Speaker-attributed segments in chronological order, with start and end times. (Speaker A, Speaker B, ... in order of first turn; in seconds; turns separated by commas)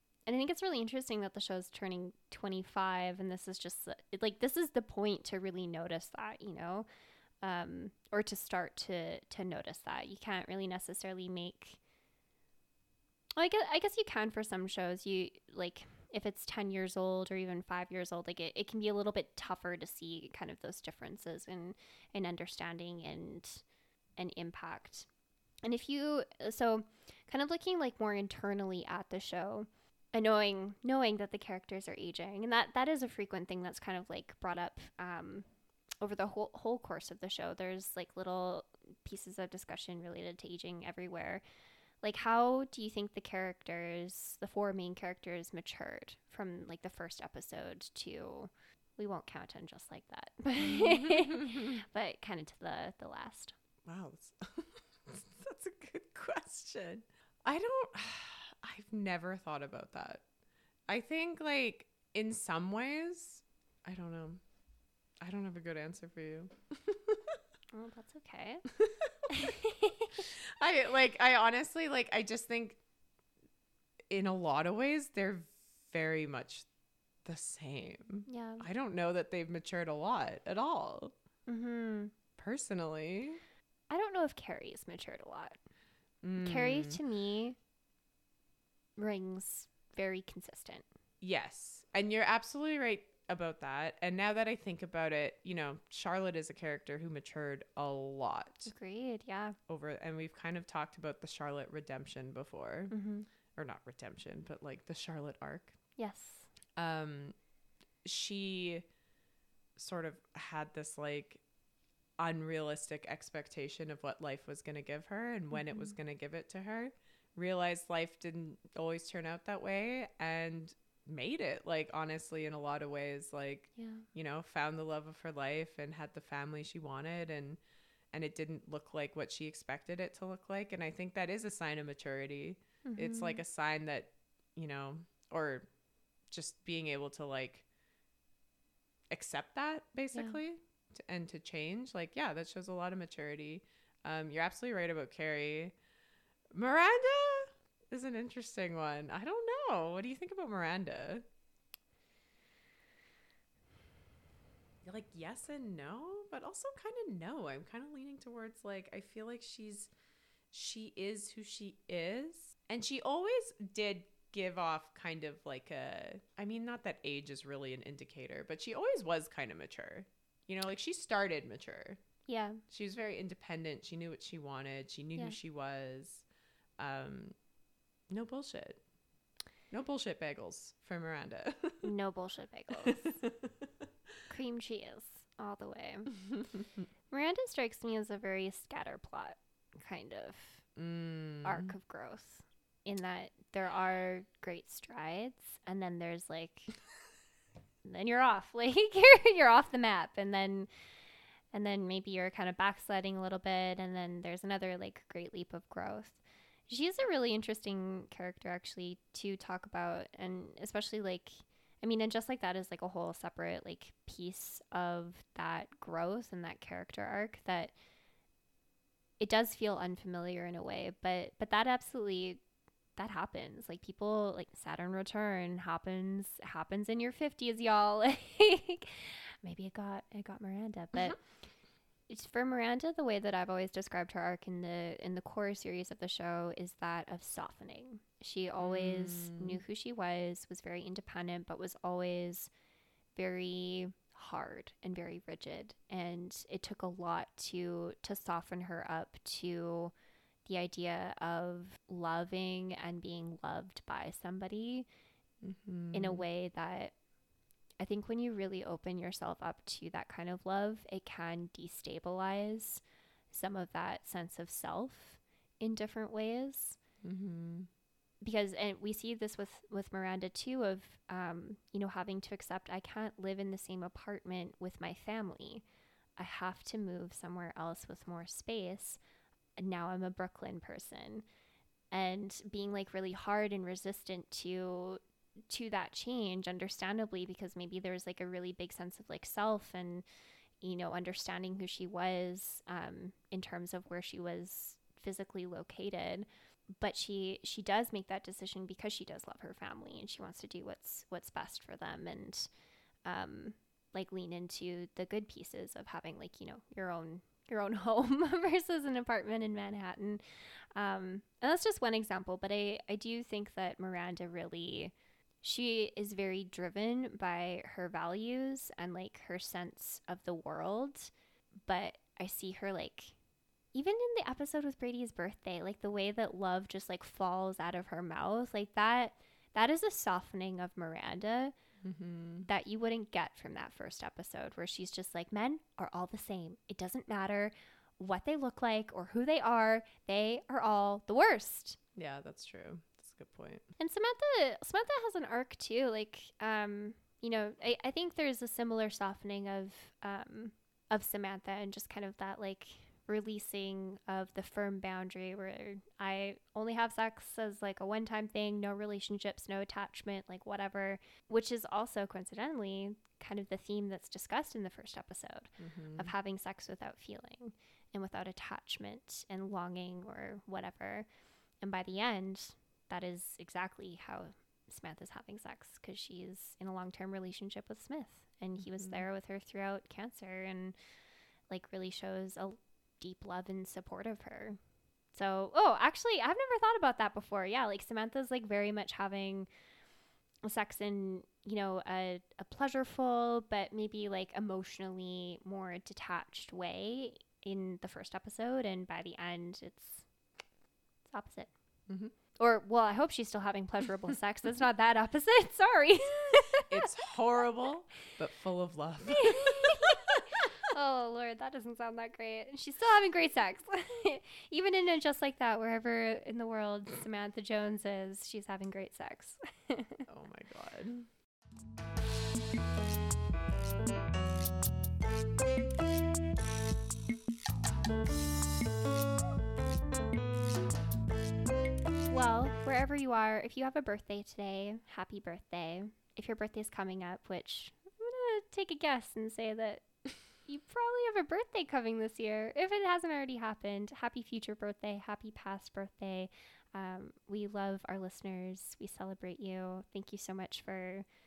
Speaker A: 0.3-6.9, Speaker A: 7.4-11.8, Speaker A: 13.4-23.6, Speaker A: 24.2-25.1, Speaker A: 25.6-35.5, Speaker A: 36.0-41.4, Speaker A: 42.0-53.5, Speaker B: 50.6-51.6, Speaker B: 53.9-60.2, Speaker B: 60.9-64.4, Speaker B: 65.2-67.4, Speaker A: 67.7-68.7, Speaker B: 68.8-69.1, Speaker A: 69.3-70.2, Speaker B: 70.2-72.8, Speaker B: 74.1-76.7, Speaker B: 77.2-81.1, Speaker A: 78.3-78.7, Speaker A: 81.5-82.1, Speaker B: 82.4-83.4, Speaker A: 83.9-85.6, Speaker B: 86.2-87.0, Speaker A: 86.4-87.6, Speaker A: 89.0-90.9, Speaker B: 91.2-98.7, Speaker A: 98.7-99.6, Speaker B: 99.7-102.9, Speaker A: 102.9-103.3, Speaker B: 103.5-105.8, Speaker A: 106.0-106.5, Speaker B: 106.8-107.4, Speaker B: 108.0-108.9, Speaker B: 109.8-111.4, Speaker B: 112.2-127.6, Speaker A: 115.5-115.9, Speaker A: 123.8-124.0, Speaker B: 128.1-135.7, Speaker A: 132.8-133.4, Speaker B: 136.3-137.7, Speaker B: 139.1-145.8, Speaker A: 140.1-140.4, Speaker B: 146.5-151.2, Speaker B: 154.8-159.9, Speaker B: 160.5-172.0, Speaker A: 172.3-172.6, Speaker B: 172.7-176.2, Speaker B: 176.8-177.4, Speaker B: 178.1-178.8, Speaker B: 179.7-181.9, Speaker A: 181.8-183.2, Speaker B: 182.9-183.7, Speaker A: 184.3-186.2, Speaker A: 187.1-190.7, Speaker B: 190.8-191.7, Speaker A: 191.4-196.7, Speaker A: 197.8-200.7, Speaker A: 201.5-217.8, Speaker A: 219.2-222.4, Speaker A: 223.0-231.2, Speaker A: 232.1-242.5, Speaker B: 238.6-239.6, Speaker A: 243.2-249.9, Speaker A: 250.5-254.9, Speaker B: 255.4-256.2, Speaker A: 255.9-256.9, Speaker A: 257.8-266.8, Speaker B: 267.0-267.7, Speaker A: 268.2-275.6, Speaker A: 276.2-279.0, Speaker A: 279.6-281.2, Speaker A: 281.9-290.1, Speaker A: 290.6-302.5, Speaker A: 303.1-310.2, Speaker A: 310.8-321.1, Speaker A: 321.7-323.1, Speaker A: 323.7-331.5, Speaker B: 331.8-332.5, Speaker A: 332.5-341.8, Speaker B: 342.0-343.7, Speaker A: 343.8-371.1, Speaker B: 365.6-366.1, Speaker A: 371.6-380.8, Speaker B: 378.6-379.1, Speaker A: 381.5-384.6, Speaker A: 385.1-389.5, Speaker A: 390.4-400.1, Speaker A: 401.1-401.5, Speaker B: 401.9-402.1, Speaker A: 402.4-406.9, Speaker B: 406.7-410.2, Speaker A: 409.1-420.0, Speaker B: 420.1-421.1, Speaker A: 432.1-439.9, Speaker A: 440.5-451.1